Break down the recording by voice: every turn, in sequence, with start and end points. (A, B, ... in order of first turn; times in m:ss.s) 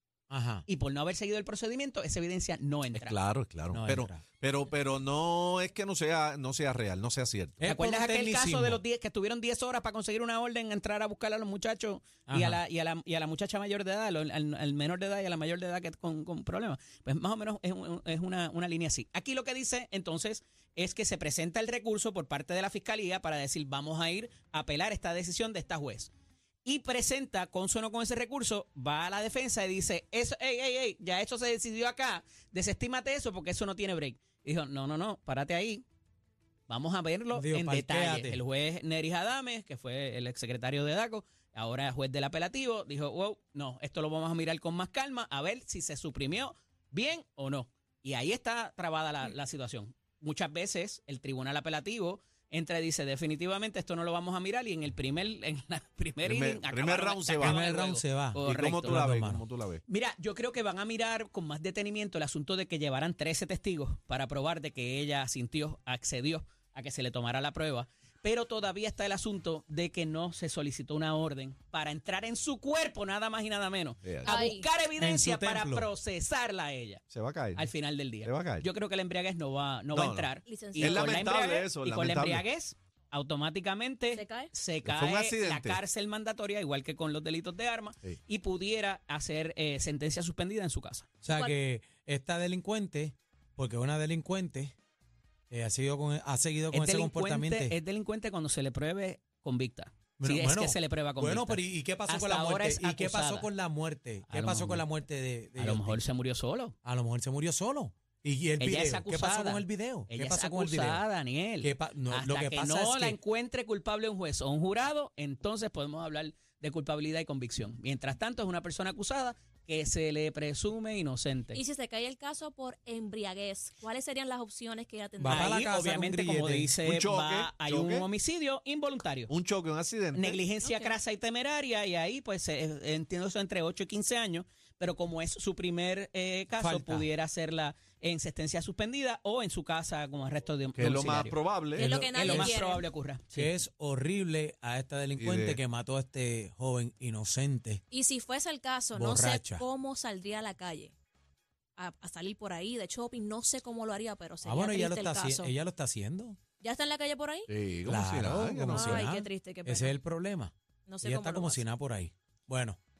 0:00.3-0:00.6 A
0:00.7-0:03.2 B
0:02.9-0:07.6 C
0:03.7-0:04.2 A
0:07.6-0:08.8 A
0:07.6-0:26.1 B
0:12.3-0:12.6 A
0:26.6-0:35.8 B
0:36.7-0:59.0 B
0:37.3-0:38.4 A
0:56.2-0:57.5 C
0:57.4-0:59.4 A
0:58.4-0:59.8 C
0:59.9-1:17.0 B
1:14.0-1:14.3 C
1:14.2-1:14.7 D
1:15.0-1:15.9 A
1:17.1-1:18.7 C
1:17.5-1:31.1 B
1:19.9-1:20.3 C
1:20.4-1:21.2 D
1:20.8-1:22.4 C
1:24.1-1:24.5 D
1:24.8-1:25.8 C
1:31.2-1:34.7 A
1:31.3-1:31.5 D
1:35.5-1:37.8 A
1:36.7-1:43.5 B
1:40.2-1:46.0 A
1:44.3-1:44.9 B
1:45.6-1:46.7 B
1:46.8-1:51.0 A
1:48.6-2:01.6 B
1:51.6-1:53.2 A
2:01.5-2:05.6 D
2:05.2-2:06.7 A
2:05.2-2:09.3 B
2:06.8-2:08.1 C
2:09.3-2:10.4 C
2:10.1-2:21.4 B
2:10.6-2:10.9 D
2:16.6-2:17.1 A
2:20.8-2:21.9 C
2:21.8-2:22.8 D
2:21.8-2:22.6 A
2:22.0-2:23.5 B
2:23.3-2:27.8 A
2:25.1-2:25.6 C
2:27.9-2:30.9 D
2:28.9-2:29.6 A
2:31.8-2:35.5 D
2:34.4-2:36.4 A
2:36.6-2:37.5 D
2:37.5-2:39.0 C
2:37.8-2:42.8 A
2:38.7-2:40.0 D
2:40.9-2:41.6 D